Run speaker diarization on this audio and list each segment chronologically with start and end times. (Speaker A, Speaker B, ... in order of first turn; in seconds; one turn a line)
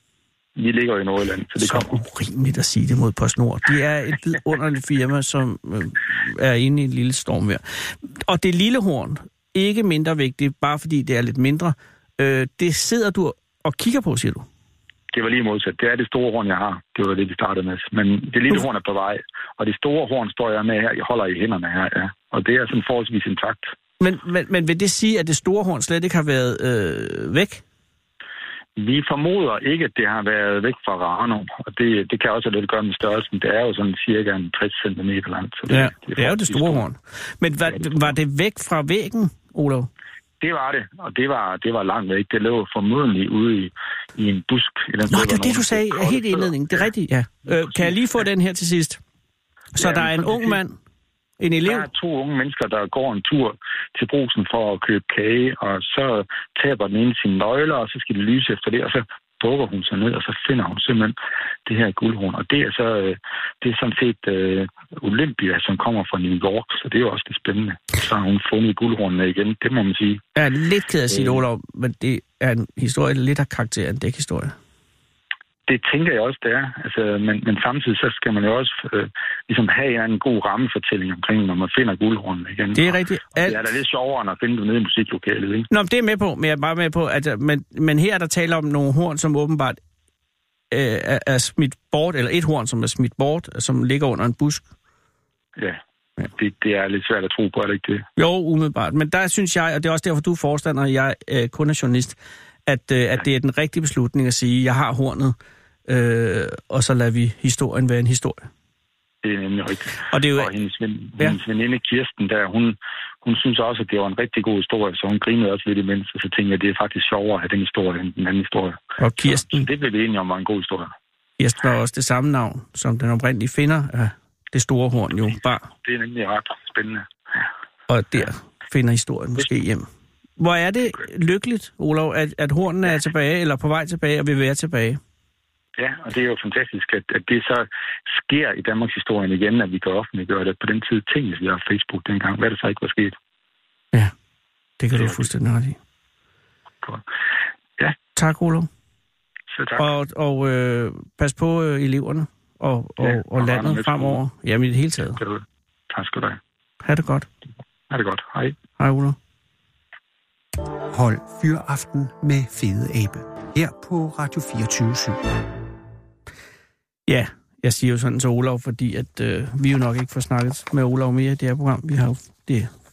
Speaker A: 0.6-1.9
Speaker B: 1.6-14.4
Speaker A: 15.1-23.7
Speaker B: 24.0-27.6
Speaker A: 28.8-36.9
Speaker B: 35.7-39.9
Speaker A: 37.7-38.1
Speaker A: 40.4-46.9
Speaker B: 45.1-49.0
Speaker A: 47.5-48.0
Speaker B: 49.8-50.8
Speaker A: 49.8-50.6
Speaker B: 51.4-51.9
Speaker A: 51.7-61.1
Speaker A: 61.7-70.2
Speaker B: 70.4-74.5
Speaker A: 71.1-71.4
Speaker A: 75.7-85.7
Speaker B: 82.7-83.6
Speaker B: 85.7-89.8
Speaker B: 90.7-94.6
Speaker A: 95.6-98.1
Speaker B: 98.2-105.4
Speaker B: 105.9-108.5
Speaker A: 109.2-120.9
Speaker B: 110.1-110.5
Speaker B: 119.0-119.7
Speaker B: 121.4-125.7
Speaker A: 125.8-127.4
Speaker B: 127.9-129.9
Speaker B: 130.4-135.0
Speaker A: 135.8-143.2
Speaker B: 144.8-145.8
Speaker A: 144.9-145.2
Speaker B: 148.2-148.7
Speaker A: 149.5-149.9
Speaker B: 149.8-155.2
Speaker A: 153.0-154.2
Speaker A: 155.2-156.4
Speaker B: 156.8-157.3
Speaker A: 157.9-158.6
Speaker B: 158.8-159.2
Speaker C: 160.9-165.2
Speaker B: 167.1-172.7